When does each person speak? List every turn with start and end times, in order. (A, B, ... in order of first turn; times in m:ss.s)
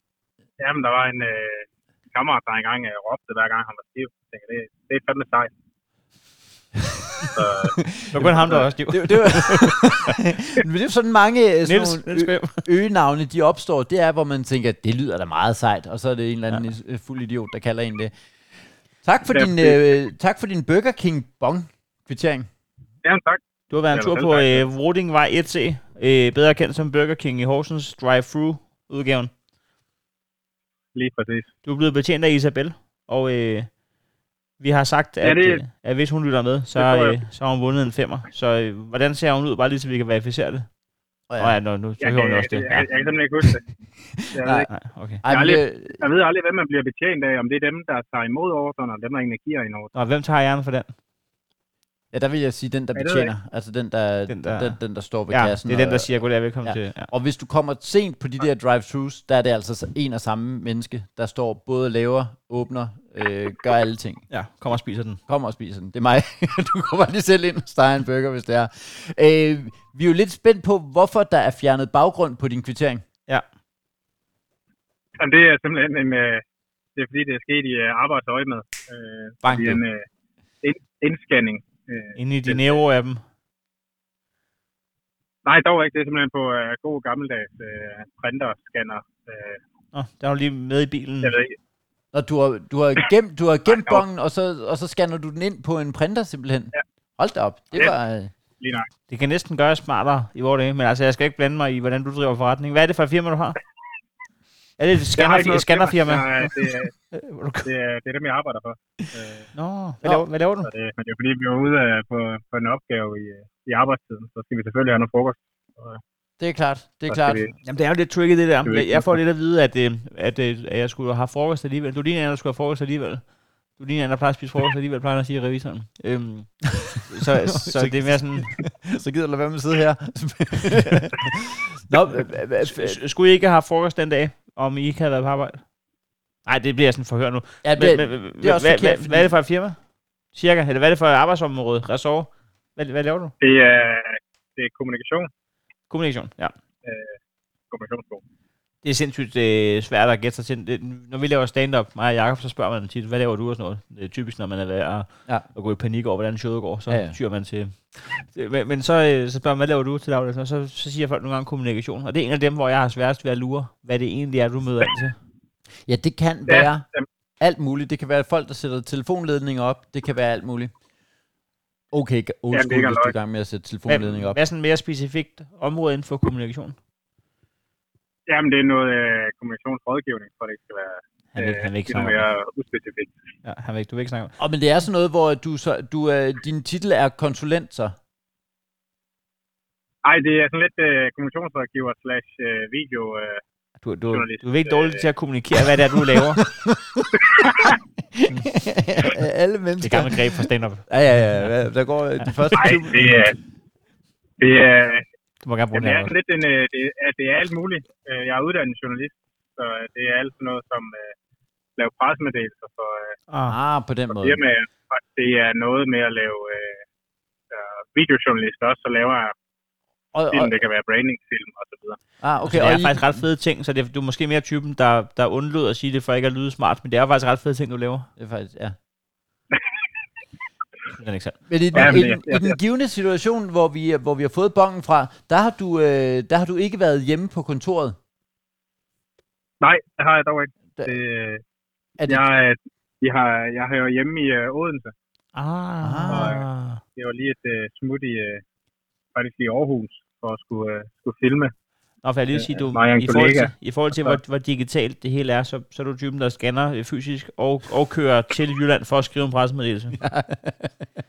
0:00.6-0:05.5 A
0:06.9-0:18.1 B
0:07.2-0:07.8 A
0:08.1-0:10.2 C
0:11.6-0:12.6 C
0:19.0-0:22.5 B
0:19.3-0:19.8 A
0:23.0-0:23.4 A
0:23.7-0:29.3 C
0:23.9-0:24.6 A
0:30.9-0:31.5 A
0:31.6-0:33.7 C
0:34.6-0:40.7 C
0:35.2-0:35.6 A
0:36.7-0:37.2 A
0:41.3-0:41.5 B
0:41.4-0:42.9 C
0:42.0-0:43.6 A
0:44.2-0:44.7 B
0:44.3-0:44.7 A
0:44.7-0:45.2 C
0:45.2-0:46.0 B
0:45.2-0:49.9 A
0:49.9-0:50.9 C
0:52.1-1:04.2 B
0:52.9-0:53.3 A
0:54.3-0:54.8 C
0:55.3-0:57.1 C
1:04.3-1:05.2 C
1:05.3-1:13.0 B
1:15.2-1:16.4 A
1:17.0-1:20.0 A
1:19.4-1:19.8 B
1:20.6-1:22.8 A
1:22.2-1:23.2 C
1:25.4-1:29.6 A
1:29.9-1:31.3 C
1:31.2-1:31.6 A
1:32.1-1:38.3 B
1:33.7-1:34.0 A
1:38.6-1:38.9 A
1:39.1-1:43.6 C
1:44.8-1:46.5 C
1:45.2-1:46.9 A
1:47.1-1:47.7 C
1:47.6-1:49.5 A
1:49.5-1:50.7 C
1:50.6-1:56.0 A
1:56.4-1:57.4 B
1:57.1-1:57.5 A
1:57.6-2:08.5 C
1:58.6-1:59.0 A
2:07.5-2:13.0 B
2:12.1-2:15.6 C
2:16.4-2:19.8 C
2:17.6-2:19.3 B
2:20.3-2:23.3 C
2:23.4-2:25.3 A
2:25.9-2:26.5 C
2:26.8-2:27.2 A
2:27.7-2:28.2 A
2:28.8-2:45.2 C
2:36.9-2:37.2 B
2:45.8-2:46.8 B
2:46.5-2:47.0 A
2:47.4-2:50.7 B
2:51.9-2:54.4 B
2:52.5-2:53.1 A
2:53.9-2:56.8 C
2:58.3-3:03.1 A
3:01.3-3:02.2 C
3:03.4-3:04.3 C
3:04.4-3:07.9 B
3:10.0-3:13.4 A
3:13.8-3:16.4 C
3:14.1-3:15.1 A
3:16.4-3:23.2 B
3:17.2-3:17.8 A
3:19.8-3:21.5 C
3:22.5-3:23.3 A
3:24.4-3:25.0 A
3:25.4-3:26.1 C
3:25.7-3:31.1 A
3:31.8-3:33.2 A
3:33.3-3:33.5 C
3:33.4-3:34.4 B
3:34.1-3:36.8 A
3:37.5-3:39.3 A
3:40.1-3:40.6 B
3:40.3-3:42.0 A
3:42.2-3:43.2 B
3:42.4-3:48.1 C
3:48.2-3:48.7 B
3:51.0-3:52.0 C
3:51.5-3:58.0 B
3:51.7-3:52.6 A
3:59.6-4:01.4 A
4:02.1-4:04.9 A
4:05.3-4:06.8 C
4:05.8-4:06.4 B
4:06.1-4:08.4 A
4:09.1-4:11.5 A
4:12.0-4:20.0 C
4:12.3-4:14.2 A
4:20.0-4:20.7 B